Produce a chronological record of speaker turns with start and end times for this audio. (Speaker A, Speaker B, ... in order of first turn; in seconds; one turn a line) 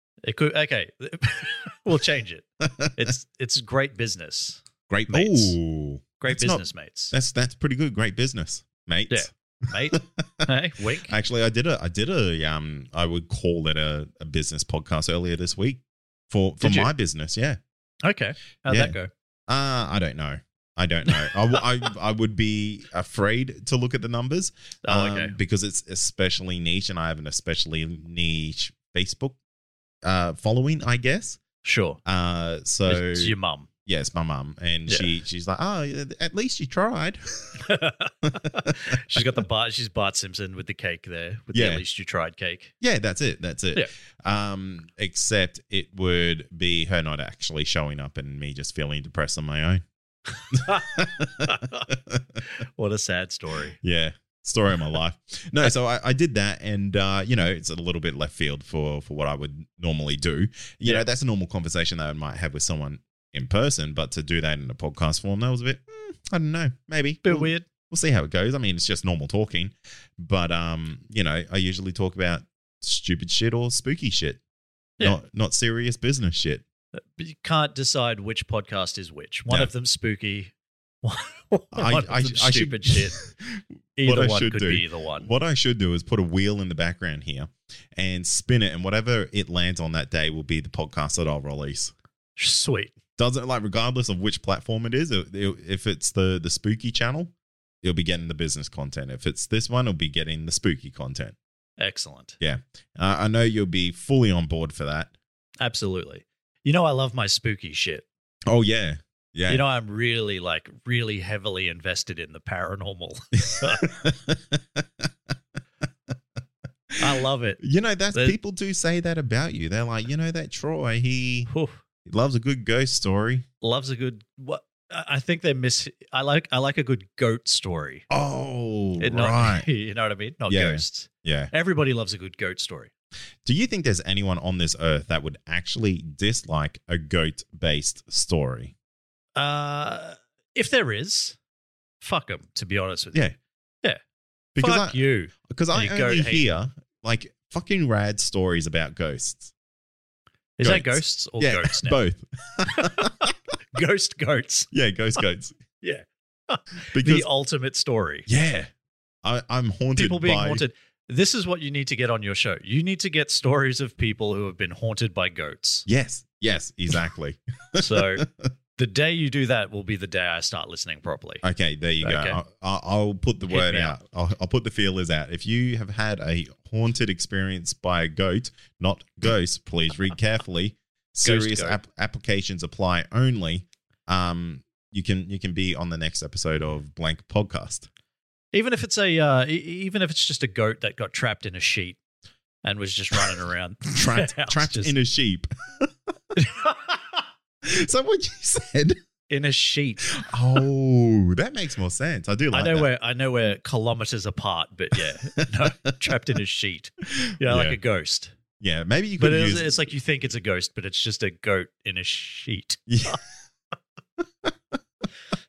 Speaker A: 0.2-5.5
Speaker B: 4.9-10.5
Speaker A: 6.2-7.1
Speaker A: 9.1-11.1
Speaker B: 11.0-17.6
Speaker A: 16.6-16.9
Speaker A: 18.0-19.1
Speaker B: 18.7-19.0
Speaker B: 19.5-29.4
Speaker A: 24.9-25.4
Speaker B: 30.0-31.4
Speaker A: 31.6-32.0
Speaker B: 32.0-33.3
Speaker A: 32.9-33.7
Speaker B: 33.9-37.6
Speaker A: 37.6-42.7
Speaker B: 38.3-39.2
Speaker B: 41.5-41.8
Speaker B: 42.8-49.8
Speaker A: 50.5-51.9
Speaker B: 50.5-52.2
Speaker A: 52.6-53.8
Speaker B: 53.8-74.4
Speaker A: 67.2-67.6
Speaker B: 75.0-76.6
Speaker A: 77.0-80.5
Speaker A: 81.0-83.2
Speaker B: 81.7-91.9
Speaker A: 84.0-85.3
Speaker A: 92.4-93.0
Speaker B: 93.2-101.3
Speaker A: 101.8-102.3
Speaker B: 102.4-105.1
Speaker A: 105.6-108.0
Speaker B: 108.5-109.6
Speaker A: 109.5-114.0
Speaker B: 113.5-115.1
Speaker A: 117.0-117.6
Speaker B: 117.6-121.5
Speaker A: 121.5-121.8
Speaker B: 122.0-123.5
Speaker A: 123.6-128.0
Speaker B: 128.1-129.7
Speaker A: 129.0-132.9
Speaker B: 130.5-131.5
Speaker B: 133.4-138.7
Speaker A: 139.3-141.4
Speaker A: 142.0-143.3
Speaker A: 144.6-146.4
Speaker B: 144.6-149.5
Speaker A: 150.6-152.0
Speaker B: 150.6-153.3
Speaker A: 152.8-154.7
Speaker B: 154.7-155.6
Speaker A: 155.8-158.3
Speaker B: 156.9-157.3
Speaker B: 158.3-158.7
Speaker B: 159.2-160.6
Speaker A: 160.0-165.8
Speaker B: 165.9-168.2
Speaker A: 167.8-168.2
Speaker A: 168.8-171.4
Speaker B: 171.4-187.9
Speaker A: 172.0-172.4
Speaker A: 173.5-173.9
Speaker A: 181.2-181.8
Speaker A: 188.5-192.0
Speaker A: 192.6-194.9
Speaker B: 193.9-195.9
Speaker A: 196.3-197.0
Speaker B: 197.6-199.0
Speaker A: 199.3-200.2
Speaker B: 200.2-202.9
Speaker A: 202.5-208.3
Speaker B: 207.4-207.8
Speaker B: 208.6-209.8
Speaker A: 209.2-213.2
Speaker B: 212.9-213.2